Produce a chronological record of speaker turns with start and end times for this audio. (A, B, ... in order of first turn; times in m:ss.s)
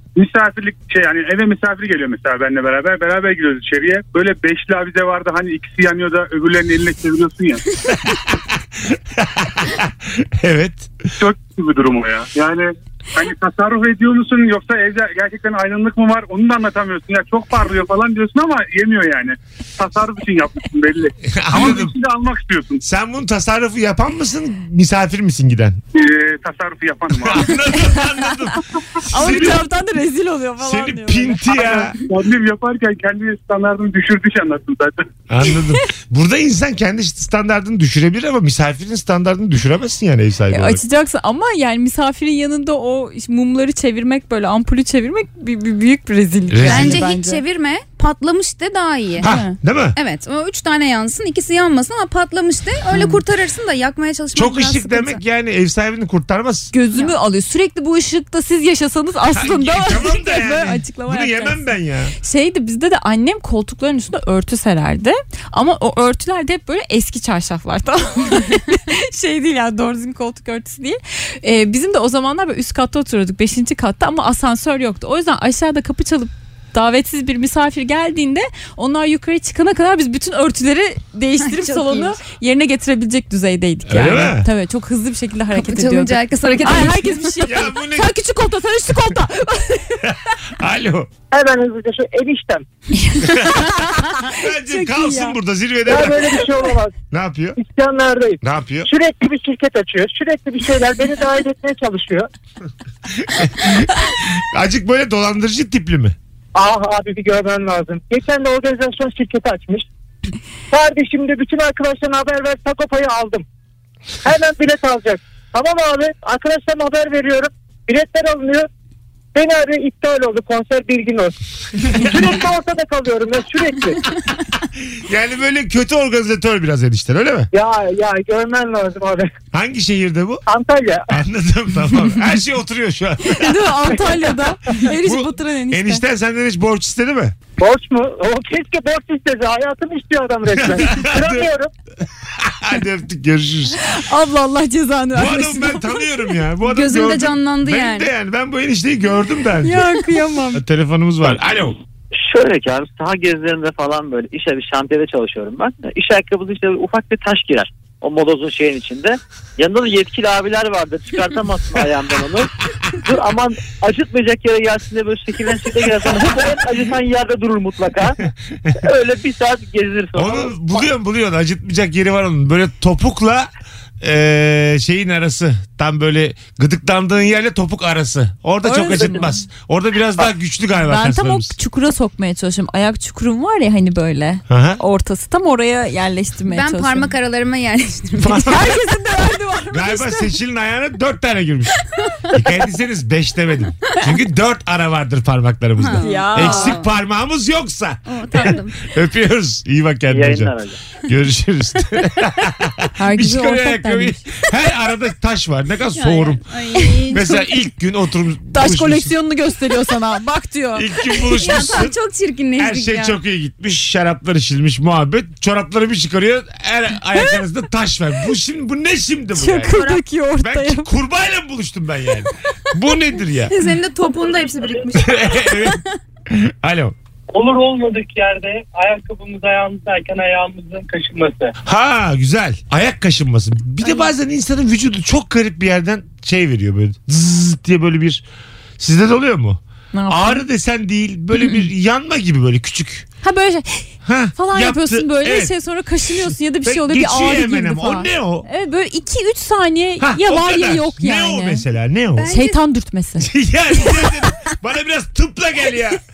0:00.2-0:07.6 A
0:07.9-0:11.1 B
0:11.2-0:22.8 A
0:21.3-0:21.9 B
0:22.8-0:25.8 B
0:25.9-0:27.7 A
0:27.1-0:29.6 B
0:29.1-0:31.5 C
0:29.2-0:29.5 A
0:30.6-0:32.0 B
0:31.5-0:35.0 A
0:35.3-0:40.8 B
0:40.5-0:47.4 C
0:46.5-0:47.1 B
0:46.6-0:49.3 D
0:49.2-0:50.0 B
0:49.2-0:49.6 C
0:50.0-0:55.2 D
0:52.9-0:53.2 C
0:54.3-0:56.7 B
0:56.7-1:01.7 C
0:59.3-1:02.2 B
1:02.2-1:30.1 C
1:21.5-1:22.1 D
1:23.9-1:24.5 B
1:25.5-1:27.3 D
1:27.4-1:28.1 B
1:30.0-1:31.1 B
1:31.3-1:32.7 E
1:33.0-1:35.4 C
1:33.3-1:33.7 B
1:34.2-1:36.4 B
1:35.9-1:37.0 E
1:37.1-1:37.6 B
1:37.6-1:42.3 E
1:38.4-1:38.9 B
1:43.2-1:46.2 B
1:46.6-1:49.9 E
1:50.7-1:53.4 E
1:54.2-1:58.7 E
1:59.3-2:04.0 E
2:05.0-2:07.5 B
2:07.5-2:09.3 E
2:09.5-2:10.4 B
2:10.5-2:11.1 E
2:11.1-2:13.9 B
2:13.3-2:16.0 C
2:14.9-2:17.4 B
2:17.6-2:21.7 E
2:20.6-2:21.5 B
2:22.3-2:23.8 B
2:23.8-2:26.4 C
2:25.1-2:29.9 B
2:26.6-2:28.1 D
2:29.6-2:30.6 C
2:30.5-2:31.8 B
2:32.1-2:48.2 F
2:48.8-2:50.9 F
2:50.2-2:53.5 B
2:54.0-3:01.6 B
2:58.6-2:59.4 C
3:00.9-3:07.1 C
3:04.5-3:04.8 B
3:06.5-3:08.8 D
3:08.2-3:08.8 B
3:08.5-3:10.3 C
3:09.7-3:26.4 B
3:15.8-3:16.9 D
3:16.0-3:16.8 C
3:18.1-3:18.8 D
3:20.1-3:20.8 F
3:23.0-3:24.2 C
3:26.0-3:27.5 D
3:26.8-3:27.2 C
3:27.1-3:29.1 B
3:28.5-3:31.2 C
3:30.8-3:32.0 B
3:31.3-3:33.2 D
3:32.6-3:39.8 B
3:39.4-3:40.9 C
3:39.7-3:40.0 D
3:40.4-3:43.6 B
3:43.5-3:45.8 D
3:44.9-3:47.0 B
3:47.3-3:51.5 G
3:51.6-3:58.2 B
3:58.8-4:03.1 B
3:59.9-4:00.4 C
4:03.2-4:11.6 C
4:04.0-4:08.5 B
4:10.0-4:12.3 B
4:12.2-4:12.6 D
4:12.3-4:13.3 C
4:13.2-4:16.0 B